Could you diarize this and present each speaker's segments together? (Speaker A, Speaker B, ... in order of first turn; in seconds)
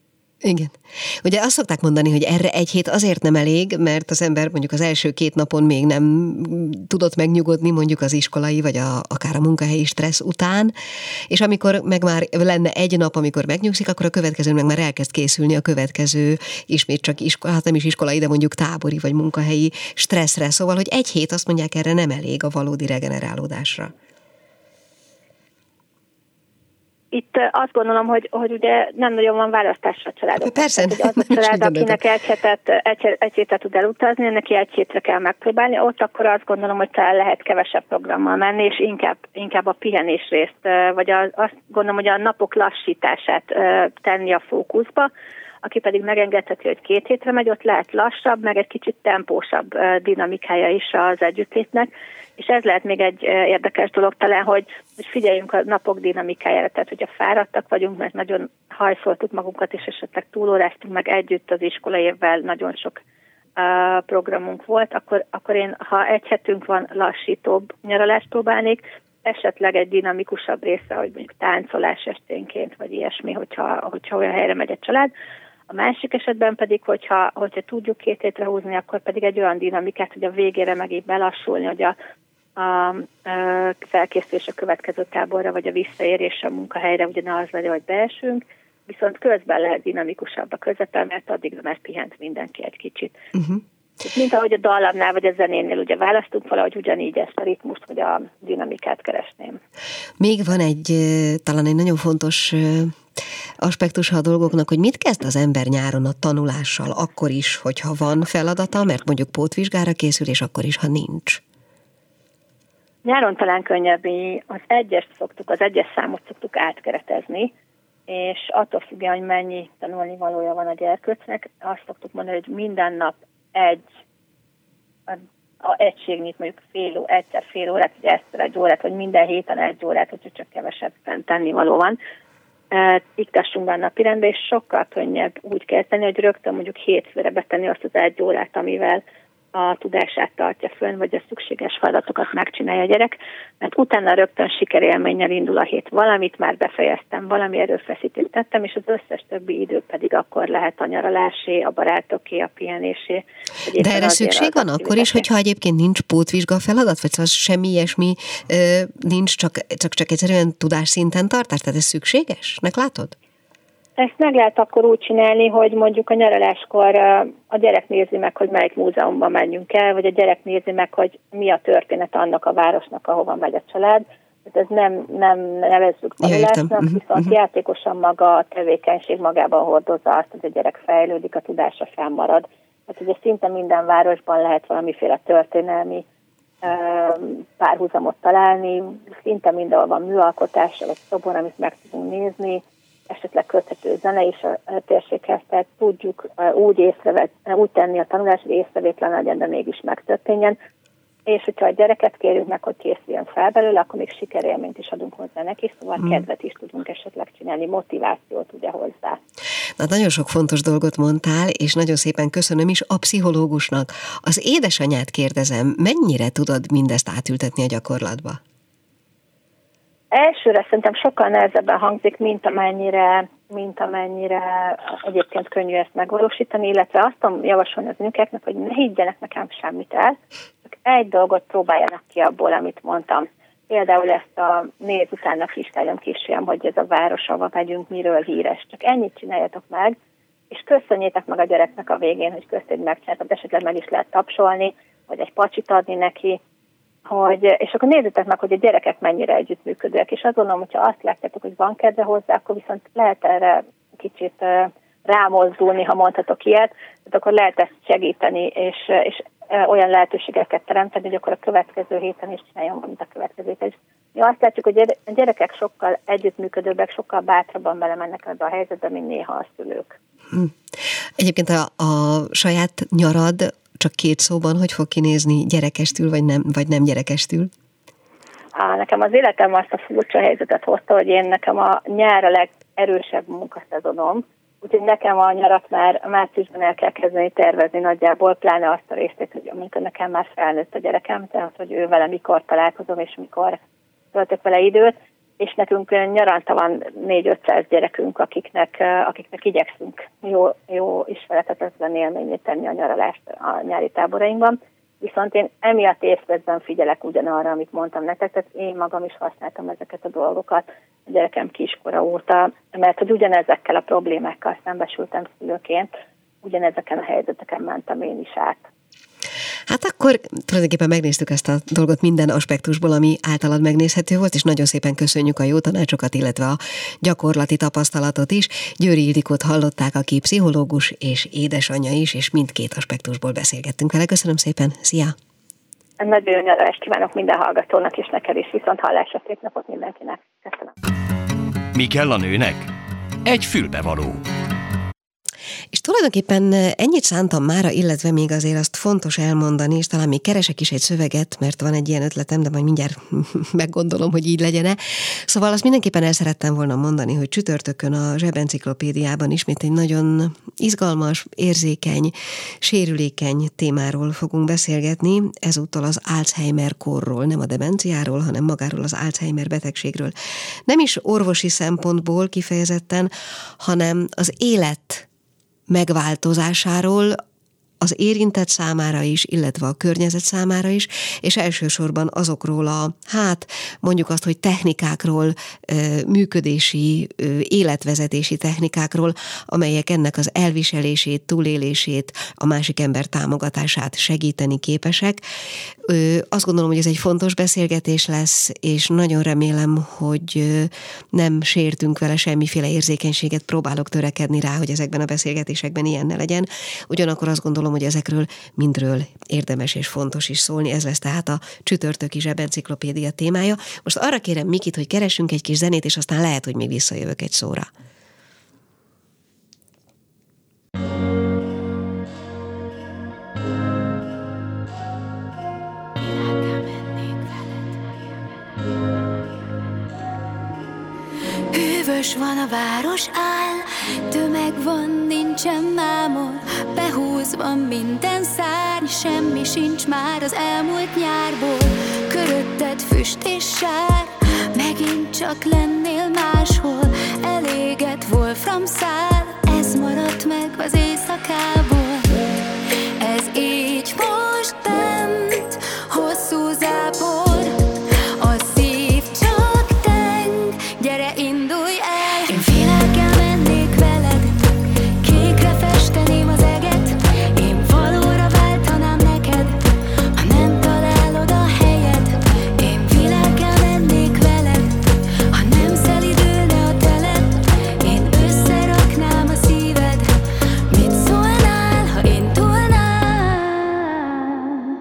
Speaker A: 0.4-10.7, 11.3-23.9, 30.4-32.0, 93.3-93.6, 100.2-103.0, 103.6-111.4, 153.8-163.2, 176.2-177.3, 209.8-218.4, 271.2-277.5, 319.7-335.1, 345.7-370.1, 370.7-375.1, 375.7-377.2, 377.8-395.2, 395.9-417.7
Speaker B: 27.1-45.1, 45.6-63.0, 63.6-75.1, 75.7-82.0, 82.6-93.2, 94.0-99.6, 113.0-117.5, 118.1-123.9, 125.1-132.0, 132.7-139.0, 139.5-155.2, 164.0-186.1, 186.6-200.6, 201.3-209.2, 220.1-230.2, 230.7-240.0, 240.5-246.4, 247.1-270.0, 278.6-293.6, 294.1-315.9, 316.4-318.6, 336.0-340.7
Speaker C: 341.7-342.7, 343.2-344.2
Speaker D: 426.4-427.4, 431.5-452.2, 453.0-457.6, 458.2-464.3, 465.0-469.6, 470.2-474.8, 475.3-480.1, 480.7-483.9